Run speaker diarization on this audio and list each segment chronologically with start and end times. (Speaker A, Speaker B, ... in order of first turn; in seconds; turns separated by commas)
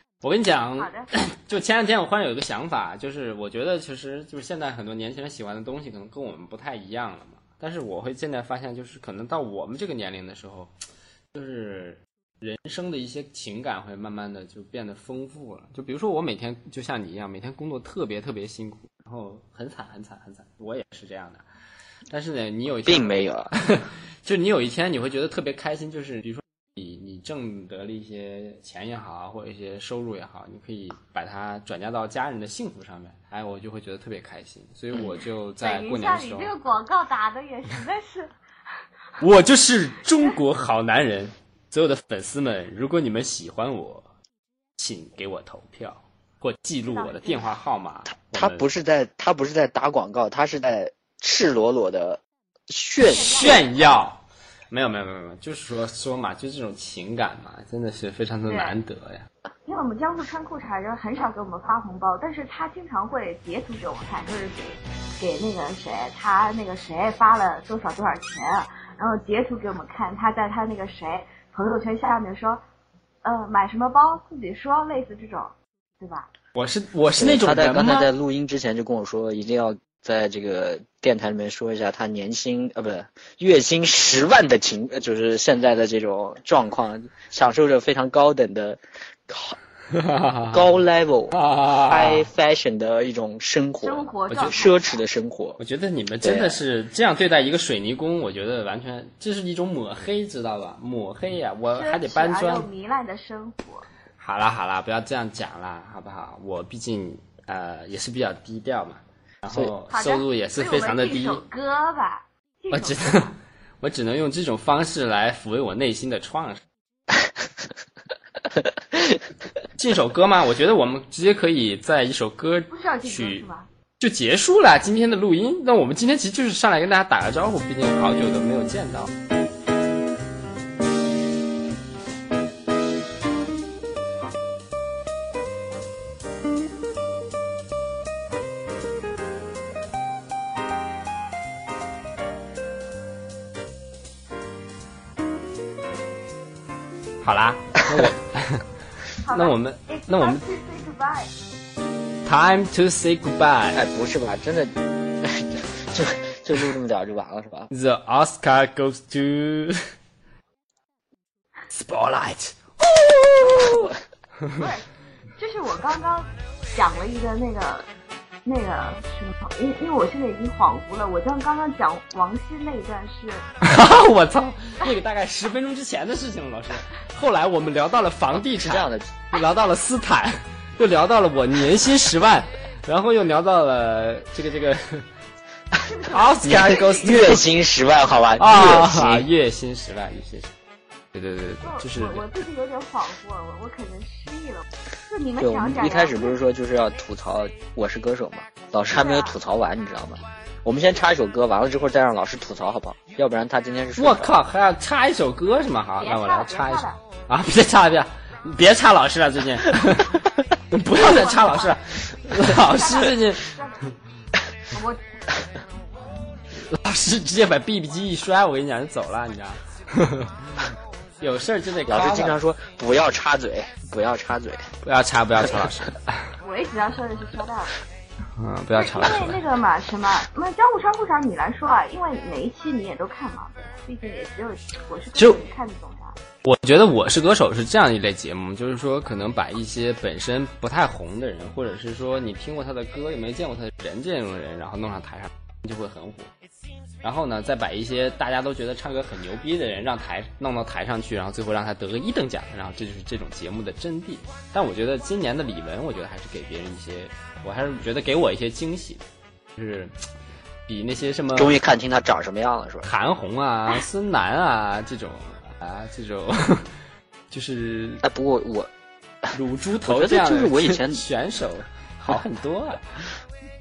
Speaker A: 0.2-10.7, Speaker B: 0.8-1.1, Speaker A: 11.3-21.4, Speaker A: 22.1-36.5, Speaker C: 22.9-23.5, Speaker B: 35.6-38.3, Speaker A: 39.2-44.0, Speaker A: 44.8-48.6, Speaker B: 46.9-47.5, Speaker C: 48.1-53.6, Speaker B: 53.1-54.0, Speaker A: 53.1-54.2, Speaker A: 54.7-59.3, Speaker B: 58.5-58.8, Speaker B: 59.7-72.6, Speaker B: 73.2-76.3, Speaker A: 76.5-78.1, Speaker C: 77.2-89.6, Speaker A: 89.9-90.7, Speaker C: 90.5-95.6, Speaker A: 91.3-92.3, Speaker B: 93.8-95.0, Speaker A: 94.3-94.6, Speaker A: 95.6-102.7, Speaker C: 96.2-96.6, Speaker B: 101.7-103.9, Speaker A: 104.2-111.4, Speaker B: 109.9-113.4, Speaker A: 112.7-113.3, Speaker A: 113.8-116.6, Speaker A: 119.8-123.5, Speaker B: 122.7-123.7, Speaker A: 124.0-129.1, Speaker A: 147.2-148.6, Speaker B: 149.2-151.3, Speaker A: 149.3-150.4, Speaker A: 152.2-153.8, Speaker C: 153.7-157.7, Speaker A: 157.7-159.8, Speaker A: 161.7-164.6, Speaker B: 164.6-167.9, Speaker B: 168.4-173.5, Speaker A: 173.6-185.1, Speaker C: 178.4-179.1, Speaker B: 185.8-187.4, Speaker A: 186.1-187.4, Speaker C: 186.4-189.3, Speaker A: 188.4-190.5, Speaker A: 191.1-192.3, Speaker B: 191.6-196.4, Speaker C: 195.4-204.3, Speaker B: 198.9-199.4, Speaker A: 204.0-213.4, Speaker B: 206.0-207.0, Speaker B: 210.9-211.8, Speaker B: 212.5-213.9, Speaker B: 214.7-215.0, Speaker A: 216.5-220.4, Speaker A: 221.2-222.4, Speaker C: 221.9-224.7, Speaker A: 224.8-226.3, Speaker B: 226.4-227.8, Speaker A: 228.4-229.4, Speaker B: 228.8-236.2, Speaker A: 236.4-246.3, Speaker A: 247.0-259.0, Speaker A: 259.6-259.9, Speaker A: 260.7-261.6, Speaker C: 261.4-262.9, Speaker A: 262.8-266.7, Speaker A: 267.3-268.0, Speaker C: 268.0-268.7, Speaker A: 269.3-273.0, Speaker C: 269.9-271.0